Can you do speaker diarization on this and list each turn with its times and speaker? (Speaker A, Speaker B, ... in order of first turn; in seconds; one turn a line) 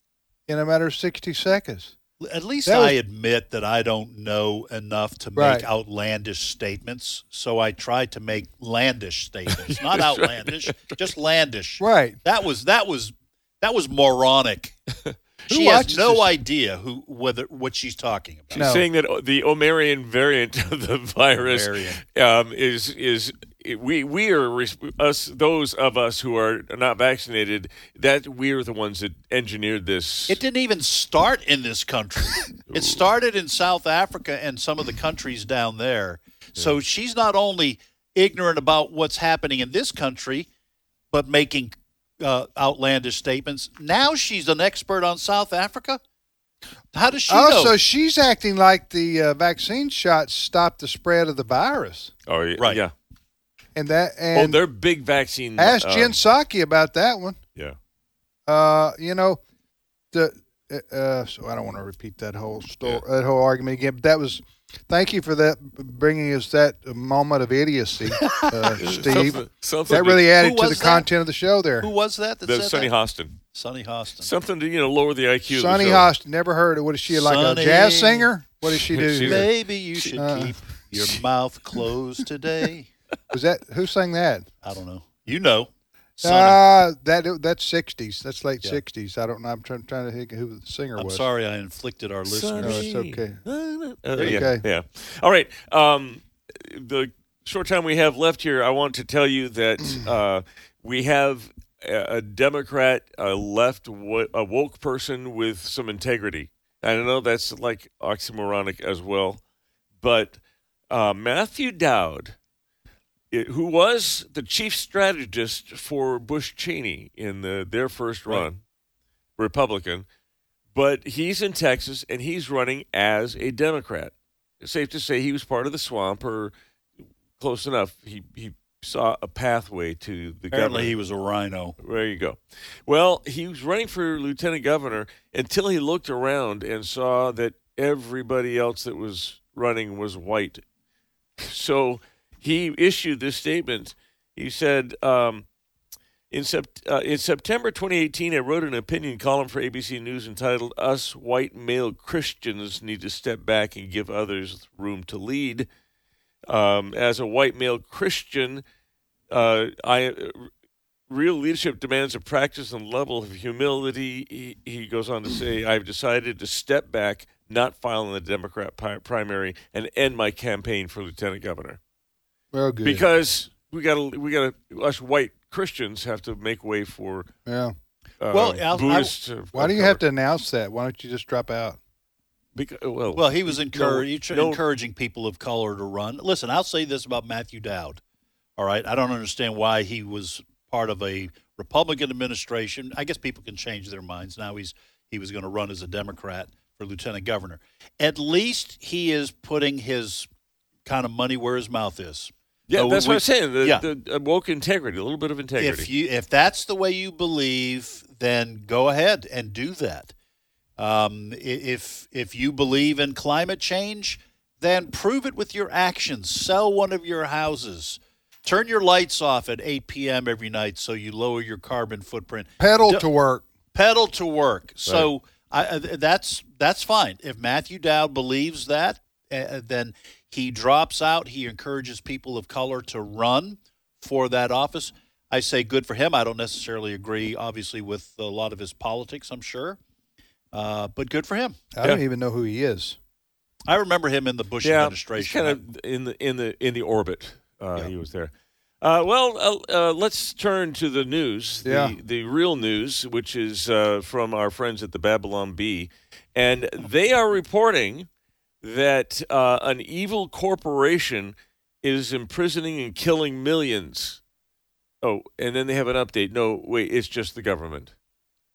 Speaker A: 0.5-1.9
Speaker B: 2.2-14.8
Speaker A: 2.7-3.0
Speaker A: 5.4-5.7
Speaker C: 9.5-11.0
Speaker A: 11.8-12.2
Speaker A: 15.5-16.3
Speaker B: 15.5-18.7
Speaker C: 18.5-30.4
Speaker A: 18.5-18.9
Speaker B: 21.4-22.0
Speaker B: 30.3-40.5
Speaker C: 32.7-33.0
Speaker B: 41.1-46.0
Speaker B: 46.9-47.8
Speaker A: 47.3-52.1
Speaker C: 52.3-52.9
Speaker B: 52.6-52.8
Speaker A: 53.8-54.6
Speaker C: 54.3-56.1
Speaker A: 55.6-57.4
Speaker A: 58.5-59.4
Speaker A: 60.1-71.9
Speaker B: 68.2-68.8
Speaker C: 68.8-70.3
Speaker B: 70.3-71.1
Speaker B: 71.8-72.9
Speaker C: 72.4-73.4
Speaker B: 73.5-74.3
Speaker C: 74.2-76.1
Speaker A: 75.5-79.5
Speaker B: 77.1-78.3
Speaker C: 78.7-80.2
Speaker B: 79.2-82.9
Speaker A: 80.2-80.5
Speaker A: 83.3-84.5
Speaker B: 84.6-85.7
Speaker A: 86.2-91.3
Speaker B: 86.2-86.6
Speaker B: 91.0-92.9
Speaker C: 92.3-109.4
Speaker A: 92.6-93.4
Speaker A: 94.2-94.6
Speaker B: 94.2-94.5
Speaker C: 110.0-110.4
Speaker C: 110.9-112.3
Speaker C: 113.3-118.6
Speaker C: 119.4-120.1
Speaker C: 120.7-126.5
Speaker C: 127.4-130.9
Speaker B: 130.5-131.8
Speaker C: 131.8-140.6
Speaker C: 141.4-145.4
Speaker C: 146.3-155.7
Speaker C: 156.5-158.6
Speaker C: 159.3-160.5
Speaker C: 161.1-171.8
Speaker A: 172.5-173.1
Speaker C: 172.8-177.3
Speaker A: 177.5-177.7
Speaker C: 178.2-180.0
Speaker B: 178.3-179.1
Speaker A: 179.5-181.8
Speaker C: 182.6-184.6
Speaker B: 183.1-188.0
Speaker B: 188.6-200.3
Speaker B: 200.8-203.8
Speaker C: 202.7-205.9
Speaker B: 205.6-210.1
Speaker B: 210.8-223.1
Speaker A: 222.6-223.5
Speaker B: 223.7-239.8
Speaker B: 240.5-241.6
Speaker A: 241.8-243.0
Speaker B: 243.7-245.6
Speaker C: 244.6-258.1
Speaker A: 251.7-252.0
Speaker C: 258.6-264.2
Speaker C: 265.0-267.9